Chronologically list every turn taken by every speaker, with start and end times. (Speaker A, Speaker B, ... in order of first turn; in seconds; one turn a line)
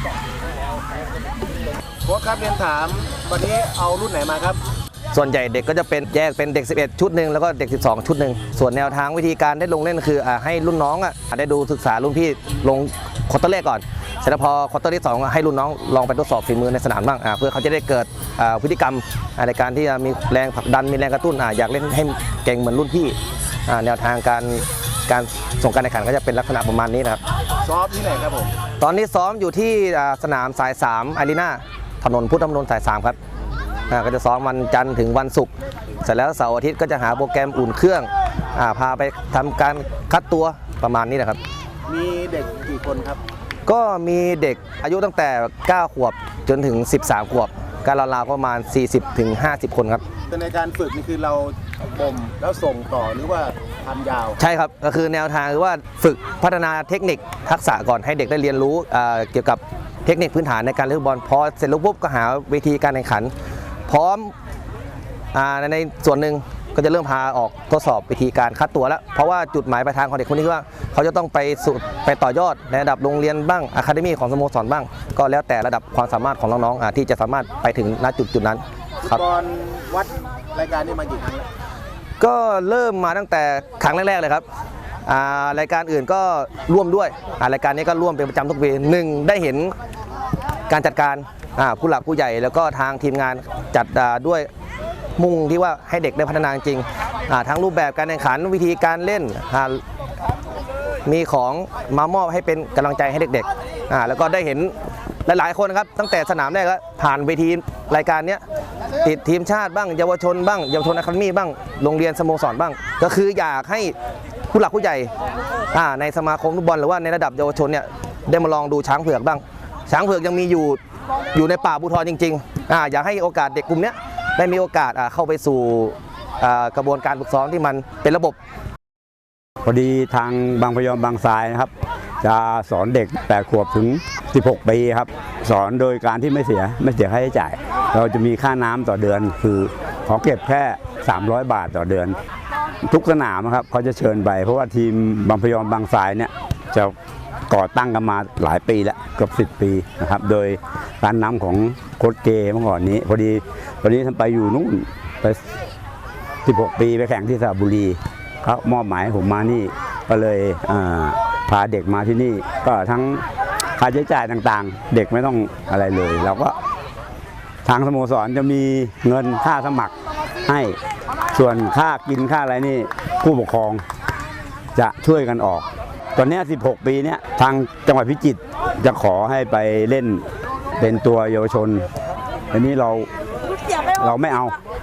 Speaker A: 2.1-4.6
Speaker B: 5.1-27.2
Speaker A: 27.7-28.5
Speaker B: 28.8-33.2
Speaker B: 33.9-35.5
Speaker B: 36.0-41.4
Speaker A: 41.9-43.2
Speaker B: 43.7-50.0
Speaker A: 50.3-54.4
Speaker B: 54.4-63.3
Speaker B: 63.9-64.3
Speaker B: 65.3-79.2
Speaker A: 79.0-81.5
Speaker B: 82.2-84.5
Speaker B: 85.0-89.7
Speaker B: 90.7-94.5
Speaker B: 95.2-99.8
Speaker B: 101.0-104.7
Speaker B: 105.3-108.5
Speaker B: 109.0-114.0
Speaker B: 114.5-115.1
Speaker B: 115.7-120.8
Speaker B: 121.3-128.4
Speaker C: 129.7-142.2
Speaker C: 142.8-146.9
Speaker C: 147.5-155.4
Speaker C: 156.4-163.2
Speaker C: 163.8-166.6
Speaker C: 167.7-169.9
Speaker C: 170.5-170.8
Speaker C: 171.3-173.8
Speaker C: 174.8-175.7
Speaker C: 176.2-180.2
Speaker C: 180.8-181.9
Speaker C: 182.5-183.1
Speaker C: 184.0-184.6